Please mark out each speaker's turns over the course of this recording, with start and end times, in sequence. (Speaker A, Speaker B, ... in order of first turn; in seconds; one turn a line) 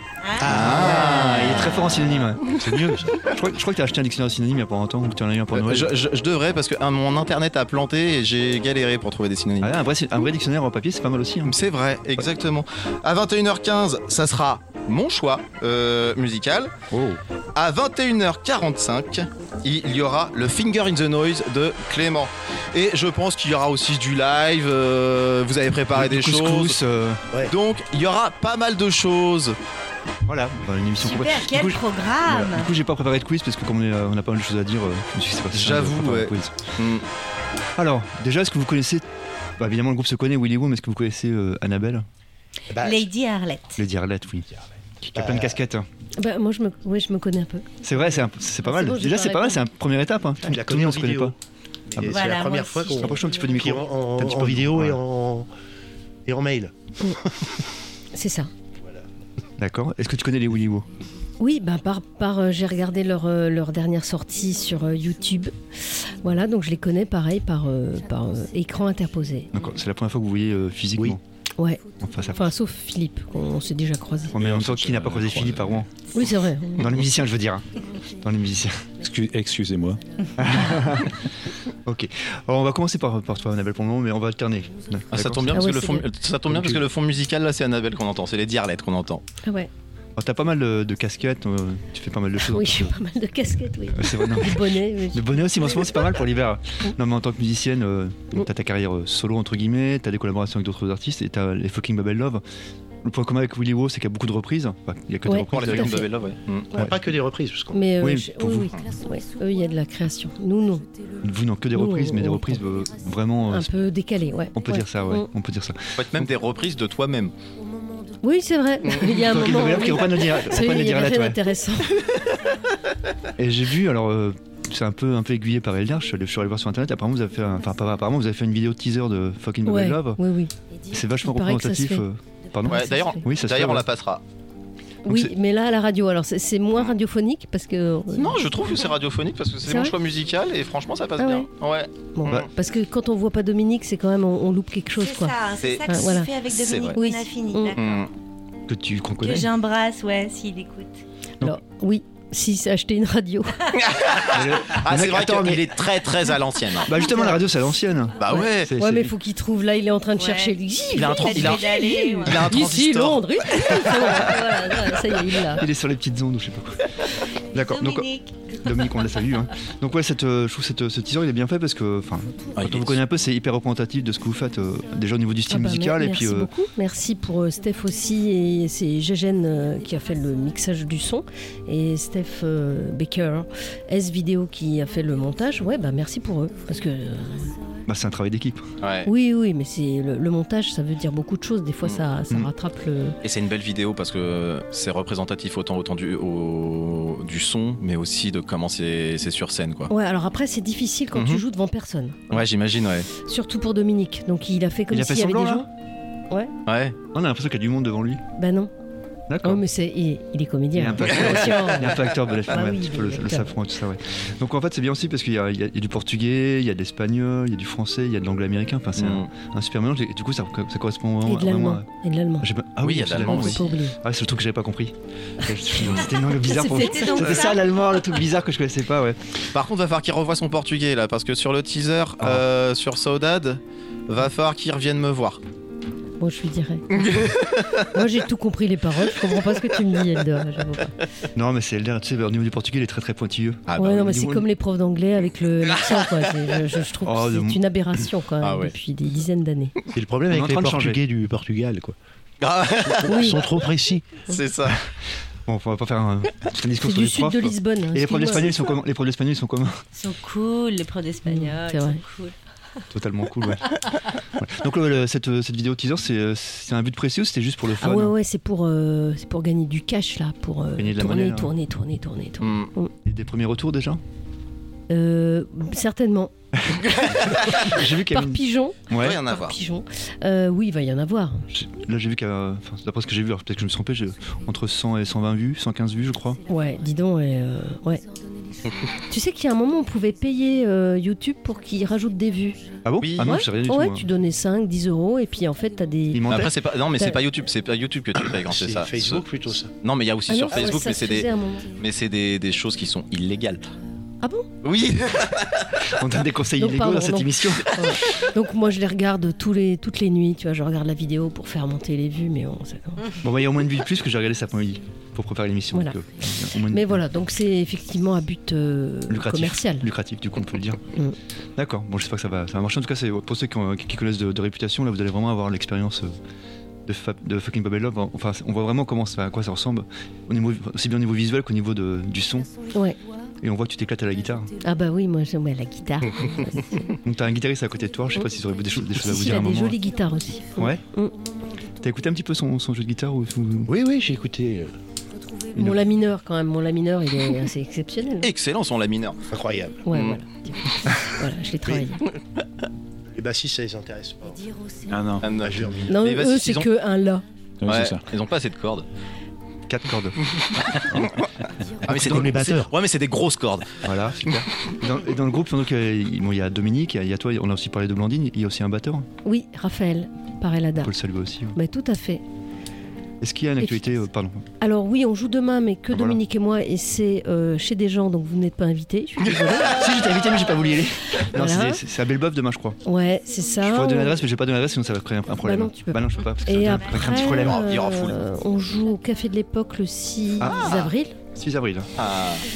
Speaker A: 0.2-1.8
Speaker B: 0.4-1.6
Speaker C: 0.5-1.9
Speaker D: 0.6-2.4
Speaker B: 2.5-3.2
Speaker D: 3.3-5.9
Speaker C: 5.5-9.7
Speaker D: 9.6-11.6
Speaker C: 11.4-16.7
Speaker D: 16.9-17.2
Speaker C: 17.6-26.8
Speaker D: 25.9-27.2
Speaker C: 27.5-29.6
Speaker D: 30.3-36.6
Speaker A: 31.0-32.7
Speaker C: 35.5-37.0
Speaker D: 37.8-39.0
Speaker D: 39.6-42.1
Speaker B: 42.7-43.1
Speaker A: 42.8-43.8
Speaker D: 43.8-44.5
Speaker D: 45.0-45.9
Speaker B: 45.2-45.6
Speaker E: 46.2-49.6
Speaker D: 47.8-51.4
Speaker B: 50.4-51.4
Speaker B: 51.9-55.5
Speaker D: 52.0-52.2
Speaker A: 52.1-53.2
Speaker D: 53.0-55.0
Speaker B: 56.3-56.7
Speaker E: 58.1-58.5
Speaker D: 59.6-60.9
Speaker E: 61.4-69.5
Speaker D: 69.5-71.2
Speaker E: 71.6-74.4
Speaker D: 72.0-72.6
Speaker D: 74.3-78.9
Speaker F: 74.3-75.9
Speaker E: 76.1-77.0
Speaker F: 79.0-80.8
Speaker D: 80.4-81.2
Speaker D: 81.8-85.6
Speaker C: 85.1-89.2
Speaker E: 85.5-86.1
Speaker F: 86.5-86.8
Speaker E: 89.4-89.7
Speaker D: 90.2-93.0
Speaker E: 92.4-96.1
Speaker D: 93.9-102.4
Speaker D: 103.0-106.0
Speaker E: 105.3-106.1
Speaker C: 105.5-106.8
Speaker B: 106.7-107.8
Speaker D: 106.7-107.0
Speaker E: 107.7-110.8
Speaker D: 108.0-108.7
Speaker D: 111.2-113.8
Speaker E: 111.7-112.7
Speaker E: 113.5-115.3
Speaker D: 114.5-116.3
Speaker C: 116.0-117.3
Speaker E: 118.2-122.0
Speaker C: 118.8-119.2
Speaker D: 119.1-121.5
Speaker D: 123.4-130.2
Speaker E: 129.7-132.1
Speaker D: 130.9-133.9
Speaker E: 132.7-133.2
Speaker C: 132.7-134.2
Speaker E: 135.1-138.5
Speaker D: 135.1-135.3
Speaker C: 138.1-142.5
Speaker E: 139.7-140.0
Speaker E: 141.2-141.5
Speaker E: 142.1-146.3
Speaker A: 145.0-148.0
Speaker C: 145.6-147.0
Speaker E: 146.9-147.8
Speaker C: 147.8-148.1
Speaker D: 148.7-149.5
Speaker A: 149.2-151.0
Speaker E: 151.4-153.7
Speaker C: 153.8-156.9
Speaker D: 154.3-155.8
Speaker D: 156.8-159.2
Speaker E: 157.0-157.4
Speaker C: 158.2-158.7
Speaker E: 158.3-165.7
Speaker A: 160.2-162.5
Speaker C: 160.9-163.3
Speaker D: 165.4-166.9
Speaker D: 167.5-176.5
Speaker A: 167.6-168.6
Speaker E: 175.5-187.6
Speaker D: 187.9-188.7
Speaker C: 188.8-189.1
Speaker E: 189.1-193.2
Speaker C: 193.2-199.9
Speaker E: 199.9-202.4
Speaker C: 201.1-201.4
Speaker C: 202.3-203.1
Speaker E: 203.2-205.7
Speaker D: 204.9-205.7
Speaker C: 206.7-207.0
Speaker D: 207.1-208.2
Speaker E: 208.4-208.7
Speaker D: 209.3-209.6
Speaker E: 209.4-213.6
Speaker D: 210.8-221.9
Speaker C: 211.2-211.6
Speaker C: 219.0-219.3
Speaker E: 221.2-222.5
Speaker D: 222.4-229.4
Speaker C: 222.8-223.7
Speaker E: 223.3-224.0
Speaker E: 226.5-227.3
Speaker A: 226.5-227.7
Speaker C: 229.5-235.4
Speaker E: 236.2-240.9
Speaker C: 236.9-237.8
Speaker D: 241.3-244.5
Speaker C: 243.7-244.1
Speaker E: 243.8-249.8
Speaker D: 247.0-247.6
Speaker C: 248.4-248.7
Speaker B: 249.9-252.0
Speaker D: 250.3-251.0
Speaker C: 252.4-253.3
Speaker B: 252.8-254.2
Speaker E: 253.1-253.4
Speaker C: 254.3-254.8
Speaker D: 255.5-259.8
Speaker E: 256.8-258.5
Speaker A: 259.9-262.4
Speaker E: 261.3-262.0
Speaker D: 262.9-263.8
Speaker D: 264.4-268.1
Speaker E: 267.8-272.9
Speaker D: 270.8-271.6
Speaker C: 272.4-272.7
Speaker D: 273.1-274.0
Speaker E: 274.9-276.3
Speaker D: 276.6-279.2
Speaker E: 277.1-281.5
Speaker C: 278.9-279.6
Speaker D: 281.5-286.4
Speaker E: 286.5-288.0
Speaker E: 289.1-292.6
Speaker D: 292.8-294.1
Speaker C: 293.0-293.4
Speaker E: 293.2-296.4
Speaker D: 296.1-296.6
Speaker C: 296.3-299.3
Speaker E: 296.9-297.2
Speaker B: 298.3-299.7
Speaker C: 299.8-303.6
Speaker E: 300.3-301.7
Speaker E: 304.2-304.5
Speaker C: 304.6-305.7
Speaker D: 305.8-307.7
Speaker E: 306.6-313.1
Speaker D: 313.2-317.0
Speaker E: 315.7-316.0
Speaker E: 316.6-319.9
Speaker D: 319.1-320.8
Speaker D: 321.6-326.2
Speaker D: 326.9-332.7
Speaker E: 332.7-333.0
Speaker D: 333.4-334.6
Speaker E: 334.6-336.9
Speaker D: 337.0-339.8
Speaker E: 338.8-341.1
Speaker D: 340.5-340.8
Speaker D: 341.8-343.7
Speaker B: 343.7-344.7
Speaker D: 345.5-345.9
Speaker E: 345.5-348.3
Speaker C: 348.2-349.2
Speaker B: 349.3-349.9
Speaker E: 349.9-352.1
Speaker C: 349.9-350.2
Speaker B: 353.1-354.5
Speaker F: 354.9-355.4
Speaker C: 355.2-356.7
Speaker B: 355.4-356.0
Speaker E: 355.9-357.2
Speaker F: 357.6-358.1
Speaker C: 357.7-358.9
Speaker D: 359.7-361.1
Speaker C: 360.3-361.3
Speaker C: 361.8-363.8
Speaker D: 361.9-362.7
Speaker B: 361.9-362.7
Speaker D: 363.8-369.1
Speaker E: 369.2-370.9
Speaker D: 370.8-371.6
Speaker E: 371.6-372.2
Speaker D: 373.2-374.4
Speaker E: 373.6-374.0
Speaker E: 374.6-379.8
Speaker D: 375.9-376.2
Speaker D: 379.6-382.8
Speaker E: 381.3-381.8
Speaker E: 382.8-384.2
Speaker D: 383.6-387.7
Speaker E: 385.4-391.2
Speaker C: 387.1-388.2
Speaker D: 390.4-391.9
Speaker C: 392.0-392.4